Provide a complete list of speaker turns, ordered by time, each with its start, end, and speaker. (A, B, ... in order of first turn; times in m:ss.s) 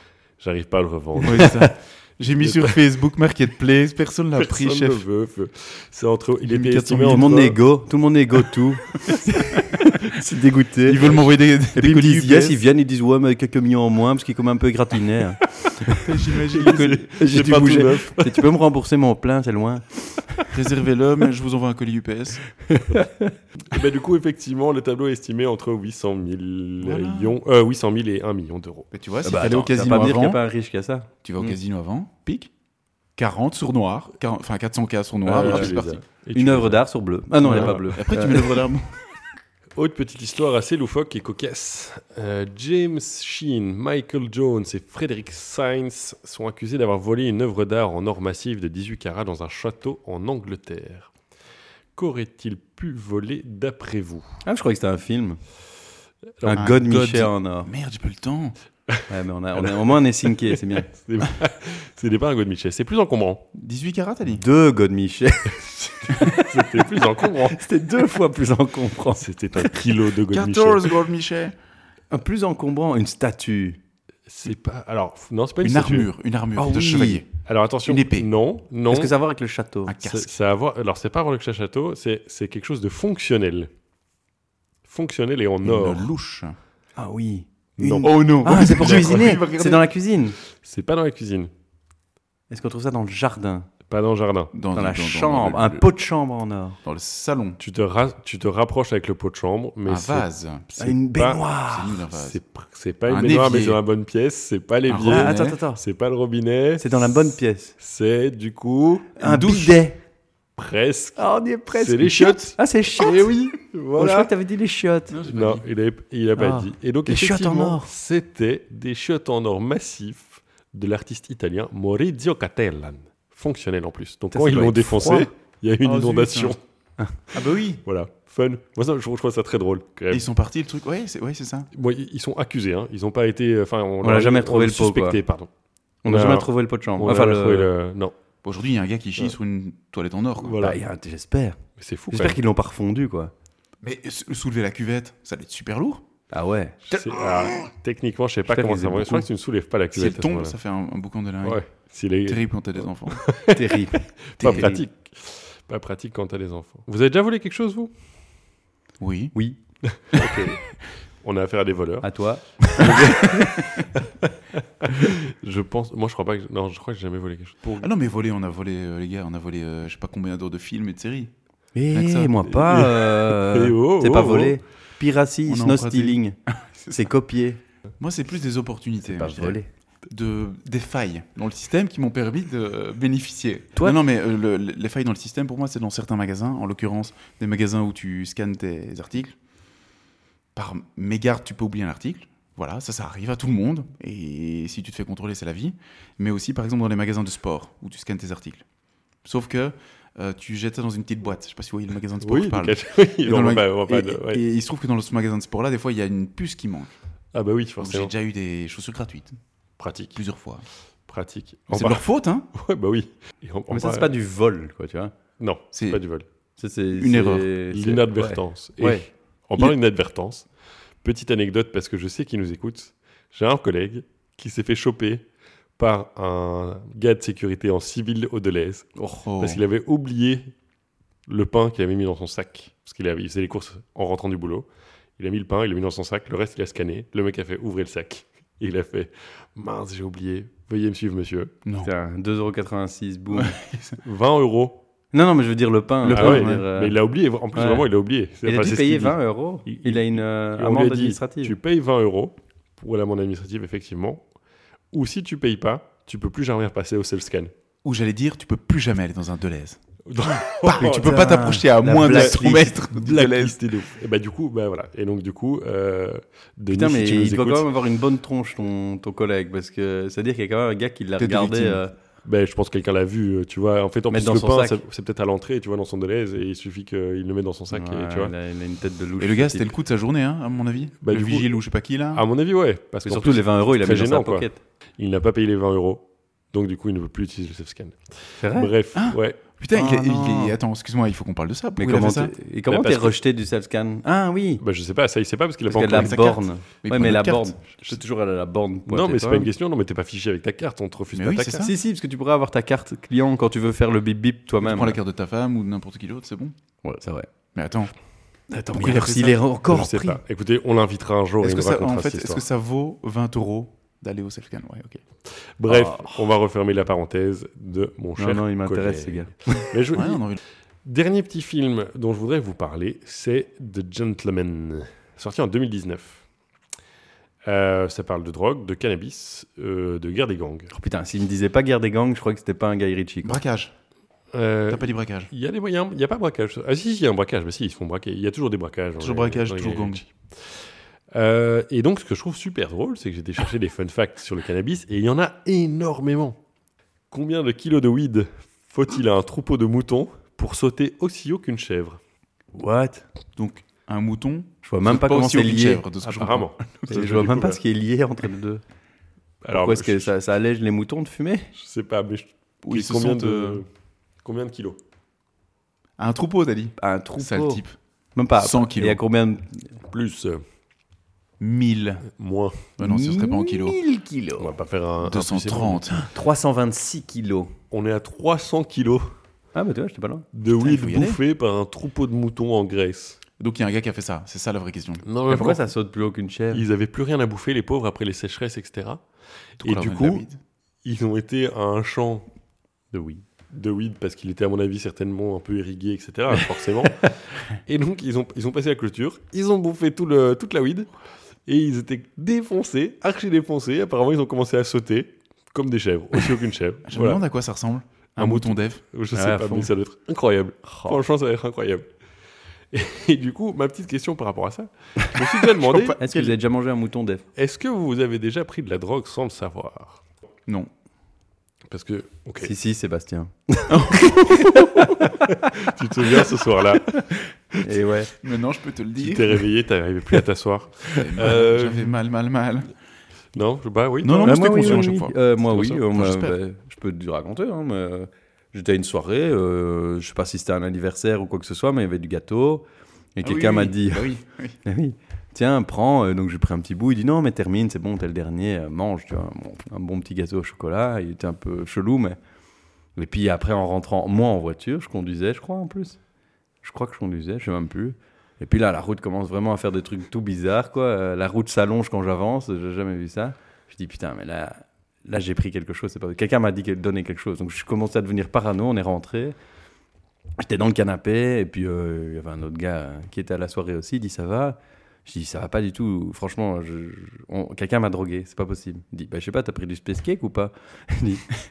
0:00.4-0:01.7 A
0:01.2-0:05.0 B
0:01.4-0:01.7 C
0:02.4-0:02.8 A
0:04.4-0:07.6 A
0:06.4-0:06.8 B
0:06.7-0:11.2 C
0:10.8-0:12.6 B
0:11.7-0:20.5 C
0:16.0-0:17.0 B
0:16.5-0:18.5 A
0:20.5-0:22.4 B
0:22.6-0:23.3 C
0:23.7-0:28.9 A
0:26.8-0:27.4 B
0:28.9-0:30.4 B
0:29.2-0:31.6 C
0:31.2-0:32.5 B
0:33.2-0:36.0 B
0:35.3-0:36.8 A
0:35.3-0:38.6 C
0:37.4-0:37.8 A
0:37.4-0:39.0 B
0:39.8-0:51.1 A
0:52.0-0:54.3 A
0:54.4-0:55.4 C
0:56.4-0:56.7 A
0:56.4-0:57.7 C
0:56.5-0:58.6 B
0:59.1-1:00.9 C
0:59.6-1:03.5 A
1:03.5-1:04.4 B
1:04.4-1:09.7 C
1:06.1-1:07.6 A
1:09.2-1:11.0 A
1:10.2-1:11.6 B
1:12.1-1:13.8 C
1:14.3-1:16.1 A
1:15.6-1:17.3 B
1:16.6-1:17.2 C
1:17.4-1:19.1 A
1:17.9-1:18.3 B
1:18.9-1:20.0 C
1:19.9-1:20.3 B
1:20.0-1:23.7 A
1:24.9-1:26.1 A
1:25.6-1:26.6 B
1:27.0-1:30.4 C
1:27.8-1:29.4 A
1:28.0-1:29.8 B
1:30.6-1:31.5 A
1:32.5-1:33.7 C
1:33.9-1:34.5 A
1:34.5-1:35.9 B
1:34.7-1:36.8 C
1:36.8-1:37.6 B
1:37.6-1:41.5 A
1:39.9-1:40.8 B
1:40.8-1:42.0 C
1:41.7-1:42.4 B
1:42.1-1:49.2 A
1:43.1-1:43.8 B
1:44.9-1:45.6 B
1:45.1-1:45.8 C
1:46.8-1:47.7 C
1:49.2-1:50.0 C
1:49.2-1:49.8 B
1:50.6-1:54.3 A
1:51.2-1:55.2 C
1:55.1-1:55.6 B
1:55.2-2:06.6 A
1:56.4-1:57.9 C
2:04.3-2:05.3 C
2:05.8-2:06.6 B
2:07.3-2:07.8 B
2:07.8-2:10.3 A
2:10.1-2:11.7 B
2:11.7-2:15.5 A
2:14.0-2:15.2 C
2:16.0-2:17.7 C
2:16.1-2:18.2 A
2:18.4-2:20.6 B
2:20.4-2:20.8 A
2:20.6-2:21.6 C
2:21.8-2:22.4 A
2:22.1-2:23.3 C
2:23.8-2:26.0 B
2:26.3-2:26.8 C
2:26.9-2:30.6 A
2:26.9-2:27.2 B
2:28.5-2:29.3 C
2:30.0-2:31.6 B
2:31.4-2:37.9 A
2:32.2-2:33.3 B
2:33.5-2:34.8 C
2:34.4-2:34.8 B
2:39.0-2:39.4 B
2:39.9-2:40.7 A
2:40.2-2:40.4 B
2:41.2-2:47.9 A
2:42.0-2:43.6 C
2:47.8-2:51.3 B
2:51.8-2:56.4 C
2:51.9-2:52.5 B
2:52.5-2:54.6 A
2:55.5-2:57.0 B
2:56.9-2:57.6 C
2:58.0-3:09.4 B
2:59.0-2:59.7 C
3:10.6-3:18.6 B
3:19.2-3:26.9 B
3:22.2-3:24.4 A
3:27.3-3:28.1 A
3:27.8-3:29.4 B
3:29.8-3:30.2 A
3:30.2-3:30.6 B
3:31.1-3:34.1 A
3:31.7-3:32.5 B
3:33.7-3:35.1 C
3:35.4-3:36.2 A
3:35.7-3:36.0 B
3:36.6-3:39.0 C
3:36.9-3:37.5 B
3:37.7-3:40.5 A
3:41.0-3:45.2 A
3:45.8-3:50.5 A
3:49.0-3:49.2 C
3:49.2-3:49.6 B
3:51.3-3:54.7 A
3:55.2-4:01.5 A
4:01.7-4:01.9 B
4:01.8-4:03.6 C
4:03.3-4:04.0 B
4:04.0-4:04.8 A
4:05.1-4:07.0 C
4:06.0-4:06.7 B
4:06.1-4:14.2 A
4:07.5-4:07.9 C
4:08.4-4:11.6 C
4:14.9-4:17.5 A
4:17.8-4:19.8 B
4:20.1-4:27.7 A
4:20.6-4:23.6 B
4:20.7-4:22.8 C
4:26.7-4:31.9 C
4:31.2-4:31.8 B
4:32.2-4:38.3 A
4:34.1-4:34.8 C
4:37.7-4:39.7 C
4:39.2-4:42.2 B
4:41.0-4:41.6 A
4:42.1-4:49.4 A
4:43.0-4:44.6 C
4:48.4-4:48.7 C
4:48.9-4:52.3 B
4:49.7-4:50.6 C
4:51.8-4:54.6 C
4:52.7-4:53.2 A
4:54.6-4:56.2 A
4:55.7-4:59.5 C
4:55.9-4:58.0 B
4:58.9-5:01.7 A
5:01.1-5:01.7 B
5:01.6-5:05.0 C
5:04.6-5:06.6 B
5:06.8-5:07.3 C
5:07.6-5:07.9 B
5:08.5-5:10.2 C
5:08.7-5:09.4 B
5:09.7-5:12.4 A
5:11.4-5:15.0 B
5:15.6-5:20.2 A
5:15.7-5:16.3 C
5:18.2-5:19.7 C
5:19.9-5:20.4 B
5:20.8-5:26.2 A
5:27.5-5:30.7 A
5:30.7-5:33.4 C
5:33.2-5:33.7 B
5:34.3-5:40.5 A
5:34.7-5:35.3 B
5:39.0-5:40.0 B
5:41.1-5:46.4 A
5:47.1-5:52.0 A
5:52.5-5:53.0 C
5:53.4-5:57.0 B
5:54.6-5:55.8 C
5:56.0-5:57.6 A
5:56.9-5:58.6 C
5:59.4-6:00.1 A
5:59.5-6:01.5 C
6:01.6-6:03.7 A
6:02.6-6:03.6 B
6:04.2-6:04.8 A
6:06.0-6:07.8 B
6:06.8-6:07.6 C
6:08.2-6:09.7 C
6:08.4-6:09.0 B
6:09.9-6:10.4 A
6:11.4-6:12.1 B
6:12.2-6:12.7 A
6:12.8-6:13.8 B
6:12.8-6:14.5 C
6:14.4-6:15.9 A
6:15.0-6:16.0 B
6:15.9-6:17.5 C
6:17.7-6:19.1 A
6:19.6-6:20.3 C
6:20.3-6:23.2 A
6:20.5-6:21.2 B
6:23.4-6:25.1 B
6:25.1-6:25.7 A
6:25.3-6:26.6 C
6:26.5-6:29.0 A
6:29.6-6:30.3 A
6:29.6-6:30.4 B
6:30.8-6:32.3 A
6:32.9-6:33.2 C
6:33.5-6:40.9 A
6:41.5-6:47.2 A
6:46.9-6:48.8 B
6:48.2-6:51.9 A
6:49.2-6:49.7 C
6:50.7-6:51.0 C
6:52.7-6:56.2 A
6:55.6-6:56.3 B
6:56.0-6:57.2 C
6:57.4-7:00.0 A
7:01.7-7:02.5 A
7:02.4-7:05.5 C
7:03.7-7:04.9 B
7:05.4-7:07.6 A
7:07.6-7:08.1 C
7:08.1-7:09.4 B
7:09.0-7:12.0 A
7:11.0-7:12.7 B
7:13.4-7:15.0 A
7:14.0-7:15.2 B
7:14.2-7:22.6 C
7:15.5-7:15.8 A
7:15.9-7:16.4 B
7:23.2-7:24.1 C
7:23.2-7:24.6 B
7:24.6-7:32.2 C
7:33.0-7:36.0 C
7:36.6-7:49.4 C
7:50.4-8:01.3 C